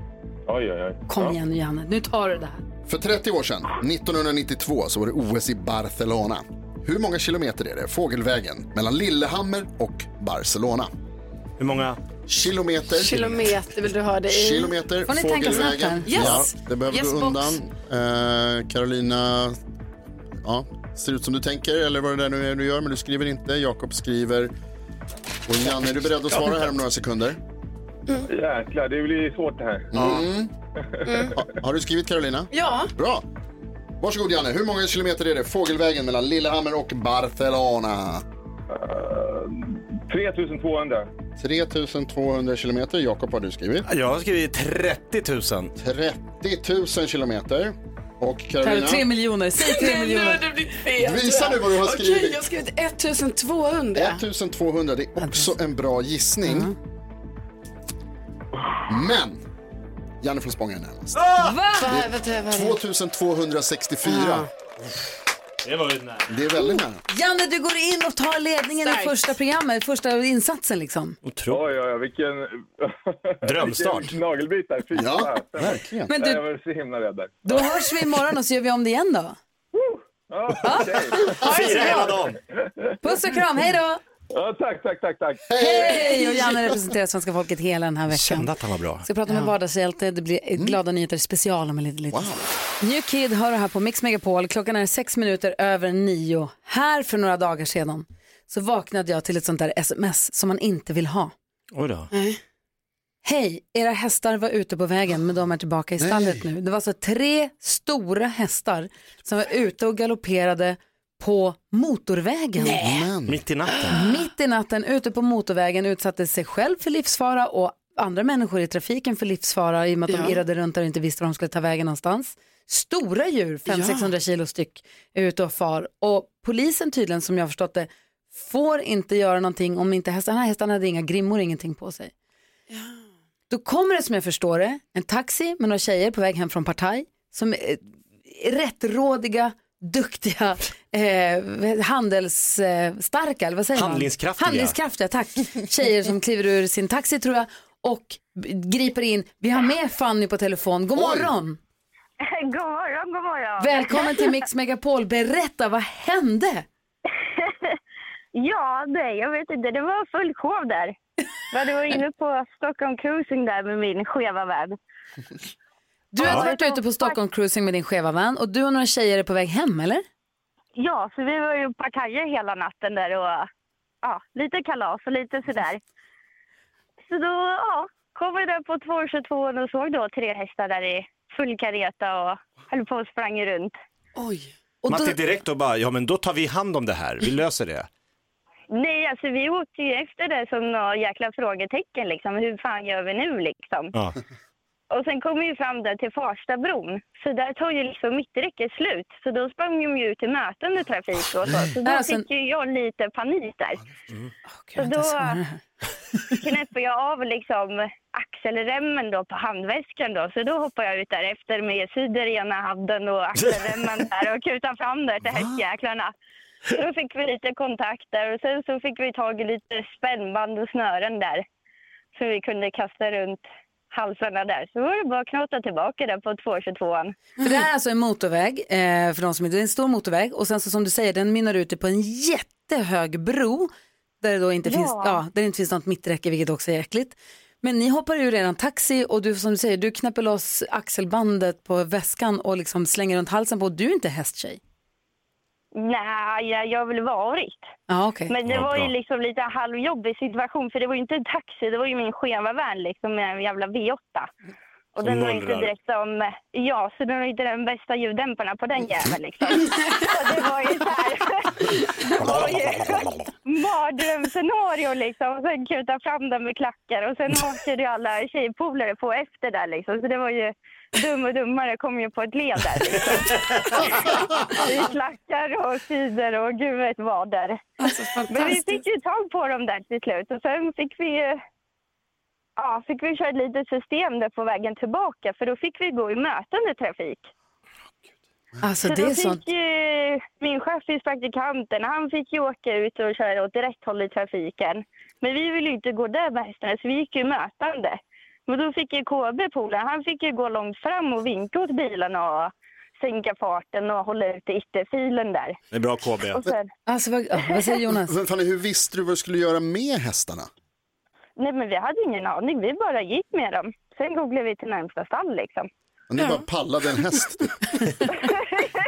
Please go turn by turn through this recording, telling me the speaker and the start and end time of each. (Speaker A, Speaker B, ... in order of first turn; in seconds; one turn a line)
Speaker A: 0.5-1.4
Speaker B: 1.1-2.6
Speaker C: 2.9-10.9
Speaker D: 11.6-12.0
Speaker C: 12.3-13.5
Speaker E: 13.0-14.7
Speaker C: 14.3-19.6
Speaker B: 15.1-16.1
Speaker E: 16.1-17.6
Speaker C: 20.4-24.5
Speaker C: 25.5-27.4
Speaker A: 28.3-30.2
Speaker C: 29.9-30.5
Speaker A: 31.0-31.4
Speaker E: 31.1-31.4
Speaker C: 31.4-33.2
Speaker E: 32.5-32.9
Speaker C: 34.0-38.2
Speaker A: 38.7-41.1
Speaker C: 41.4-43.9
Speaker D: 43.9-45.7
Speaker C: 45.8-49.1
Speaker B: 48.6-50.5
Speaker E: 49.6-54.2
Speaker C: 51.0-52.4
Speaker C: 54.0-56.7
Speaker B: 55.2-55.5
Speaker B: 56.5-56.8
Speaker C: 58.9-59.4
Speaker C: 60.2-61.2
Speaker D: 61.1-61.6
Speaker B: 61.4-61.9
Speaker E: 61.8-62.8
Speaker C: 61.9-64.5
Speaker E: 64.0-64.5
Speaker D: 65.6-66.4
Speaker C: 66.3-67.0
Speaker B: 67.1-71.2
Speaker E: 68.8-69.2
Speaker D: 71.2-71.6
Speaker A: 71.5-77.7
Speaker D: 73.4-74.2
Speaker C: 74.9-76.1
Speaker B: 76.1-76.4
Speaker B: 77.5-79.4
Speaker A: 79.7-83.0
Speaker B: 80.6-81.2
Speaker D: 81.4-82.4
Speaker E: 81.4-82.1
Speaker B: 83.0-84.0
Speaker A: 84.3-86.0
Speaker C: 85.5-86.5
Speaker B: 85.5-88.5
Speaker D: 88.1-89.1
Speaker B: 89.0-101.3
Speaker C: 92.1-92.5
Speaker D: 101.7-102.1
Speaker E: 102.1-102.4
Speaker B: 103.2-112.8
Speaker C: 106.0-106.5
Speaker E: 112.6-113.1
Speaker C: 112.8-113.4
Speaker D: 113.3-114.0
Speaker E: 113.7-114.2
Speaker B: 113.9-132.1
Speaker E: 120.1-120.4
Speaker E: 123.7-124.1
Speaker E: 132.7-133.0
Speaker B: 133.5-151.6
Speaker D: 143.7-144.8
Speaker C: 150.9-151.3
Speaker F: 152.2-154.4
Speaker B: 153.6-156.7
Speaker F: 157.3-157.8
Speaker F: 158.3-161.0
Speaker F: 161.5-164.8
Speaker B: 166.1-170.1
Speaker F: 166.2-167.2
Speaker F: 170.8-173.5
Speaker F: 174.0-175.8
Speaker F: 177.1-183.8
Speaker E: 184.2-184.5
Speaker B: 184.8-185.2
Speaker D: 184.9-187.9
Speaker F: 188.7-193.9
Speaker F: 194.9-203.8
Speaker B: 201.8-202.2
Speaker B: 204.6-205.6
Speaker F: 204.8-205.4
Speaker F: 206.3-216.1
Speaker F: 216.7-221.4
Speaker F: 222.2-227.2
Speaker B: 227.4-233.7
Speaker B: 234.2-244.6
Speaker F: 234.7-235.2
Speaker F: 245.8-247.7
Speaker B: 247.9-248.3
Speaker F: 248.3-254.3
Speaker D: 248.5-248.9
Speaker F: 254.9-277.6
Speaker D: 255.0-255.7
Speaker D: 262.2-262.6
Speaker E: 277.8-278.8
Speaker F: 278.3-281.4
Speaker F: 282.6-287.3
Speaker B: 288.6-289.4
Speaker F: 288.9-305.6
Speaker D: 305.7-306.5
Speaker F: 306.3-306.7
Speaker B: 306.9-308.1
Speaker F: 307.4-307.8
Speaker C: 308.0-310.5
Speaker F: 311.4-315.7
Speaker C: 316.1-317.9
Speaker E: 316.2-316.5